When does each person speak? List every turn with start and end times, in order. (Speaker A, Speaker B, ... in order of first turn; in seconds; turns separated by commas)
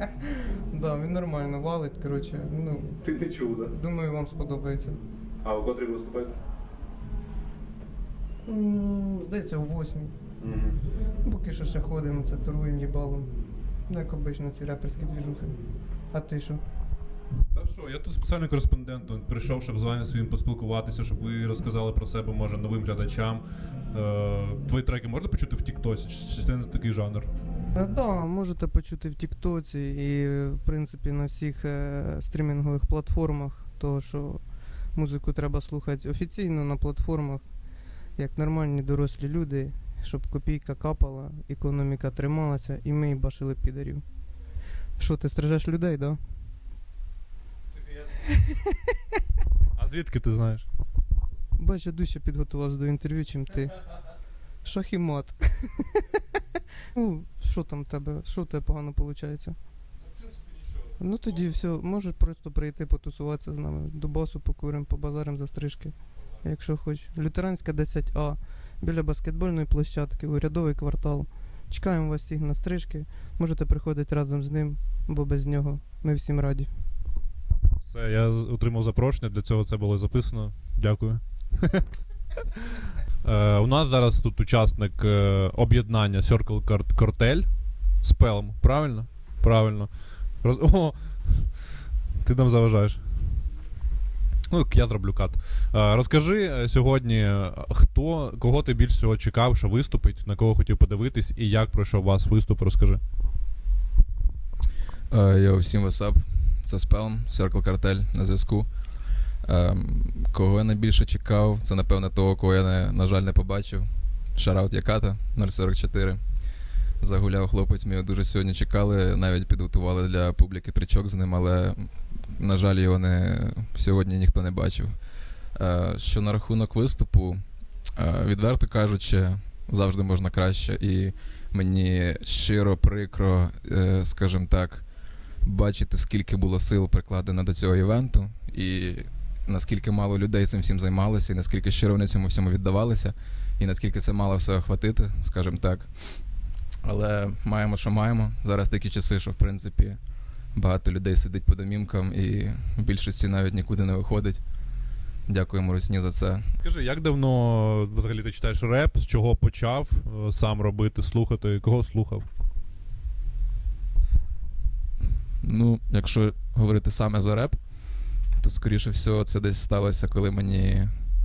Speaker A: 0.7-3.0, Speaker B: 3.0-3.7, Speaker A: 3.7-5.0, Speaker B: 5.4-6.4, Speaker A: 8.5-10.2, Speaker B: 10.4-10.8, Speaker A: 11.2-13.3, Speaker A: 13.9-15.6, Speaker A: 16.1-16.6, Speaker B: 17.5-27.3, Speaker A: 27.7-37.4, Speaker A: 38.2-44.0, Speaker A: 45.0-46.2, Speaker B: 49.8-50.6, Speaker A: 51.6-53.8, Speaker A: 54.6-56.0, Speaker A: 56.9-59.6, Speaker A: 61.0-76.7, Speaker B: 77.9-81.8, Speaker B: 83.2-87.5, Speaker B: 88.0-89.9, Speaker B: 90.4-91.0, Speaker B: 92.2-93.0, Speaker B: 94.5-103.0, Speaker C: 105.1-108.7, Speaker C: 109.5-116.2, Speaker C: 117.0-121.8, Speaker C: 122.4-124.9, Speaker C: 125.6-127.4, Speaker C: 128.0-134.8, Speaker C: 135.4-145.9, Speaker C: 146.8-150.0, Speaker C: 150.6-154.4, Speaker C: 155.3-156.5, Speaker B: 156.6-162.3, Speaker C: 165.4-167.6, Speaker C: 168.4-170.9